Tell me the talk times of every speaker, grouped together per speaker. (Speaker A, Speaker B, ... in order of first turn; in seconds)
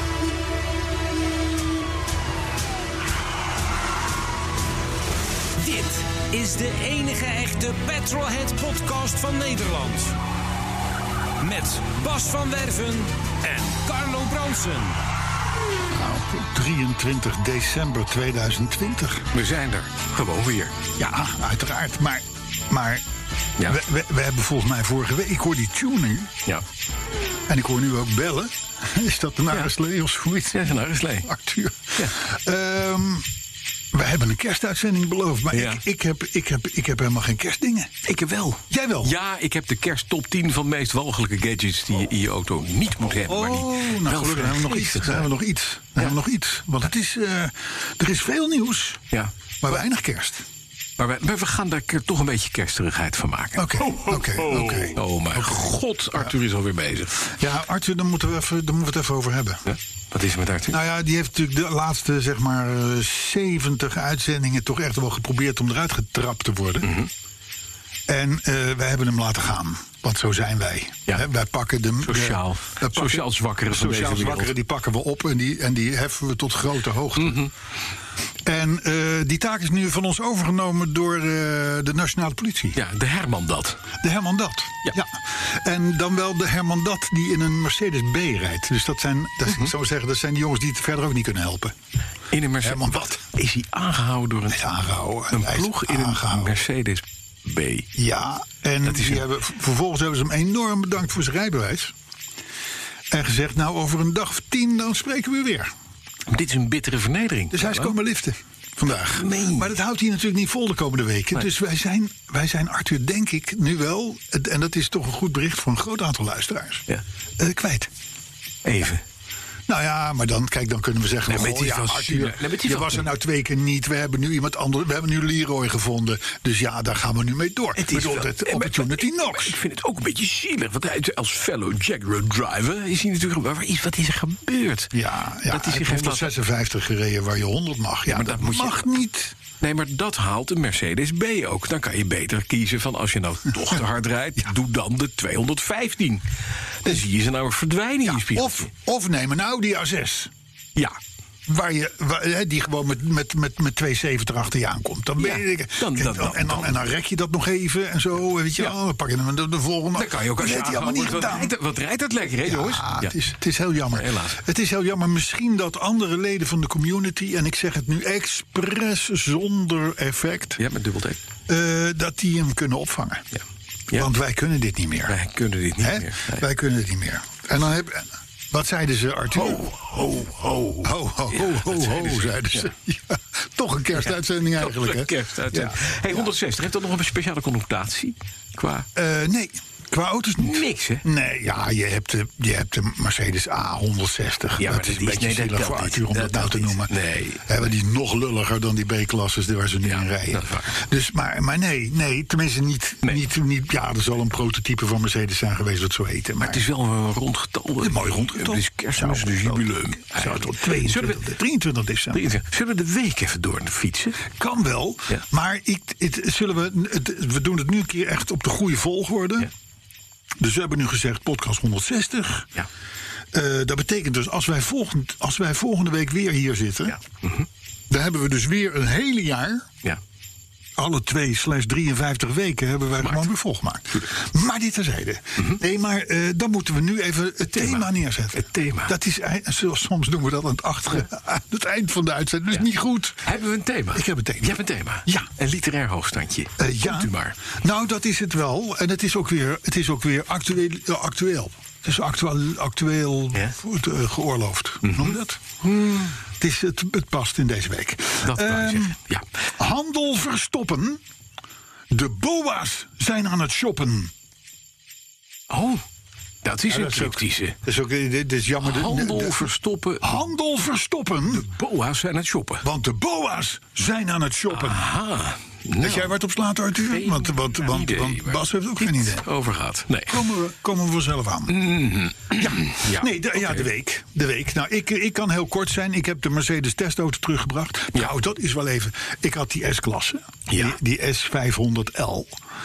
Speaker A: 5.6-10.2, 11.4-15.0
Speaker B: 15.9-19.3, 21.0-23.0, 23.6-26.3, 27.5-33.3, 33.9-38.0, 38.7-39.2, 43.2-49.0, 49.6-50.5, 53.6-55.7, 57.3-59.6, 60.7-67.0, 68.1-77.5, 78.5-82.8, 84.0-91.7, 92.6-93.3, 94.5-96.6, 98.0-101.9, 103.1-105.7, 107.5-116.8, 117.4-117.9, 119.7-129.6, 134.9-139.3, 148.1-150.3, 151.5-161.5, 162.4-170.6, 171.5-173.3, 173.9-175.2, 175.8-179.6, 180.8-186.3, 188.9-196.9, 197.5-206.7, 207.8-212.2, 214.3-219.5, 220.4-222.5, 223.3-227.0, 227.9-229.7, 230.8-243.3, 243.9-245.3, 246.6-255.4, 256.4-259.0, 259.6-261.0, 261.9-264.1, 266.7-269.5, 270.0-271.5, 272.6-274.9, 275.8-279.3, 280.1-281.6, 282.4-292.4
Speaker C: 19.3-20.8, 30.5-31.3, 35.5-35.8, 38.0-45.3, 51.0-57.3, 59.7-60.8, 66.8-67.1, 72.0-74.5, 77.2-77.5, 82.8-83.8, 89.5-89.7, 92.3-94.6, 95.3-97.9, 98.8-99.2, 106.3-107.9, 109.1-109.7, 118.7-119.0, 121.3-123.1, 127.8-134.9, 135.5-136.3, 138.1-138.8, 139.6-146.2, 146.8-148.7, 155.2-156.8, 159.9-163.2, 163.9-164.4, 170.6-171.2, 175.1-176.4, 179.3-182.7, 184.6-188.9, 190.4-191.0, 194.6-197.7, 199.8-200.8, 206.4-211.2, 212.1-214.3, 226.9-227.5, 237.5-238.9, 243.2-247.4, 254.8-256.1, 258.2-259.3, 265.5-265.8, 266.4-267.6, 268.6-270.2, 271.3-272.7, 274.5-276.1, 276.8-280.3, 281.5-283.7, 290.5-290.8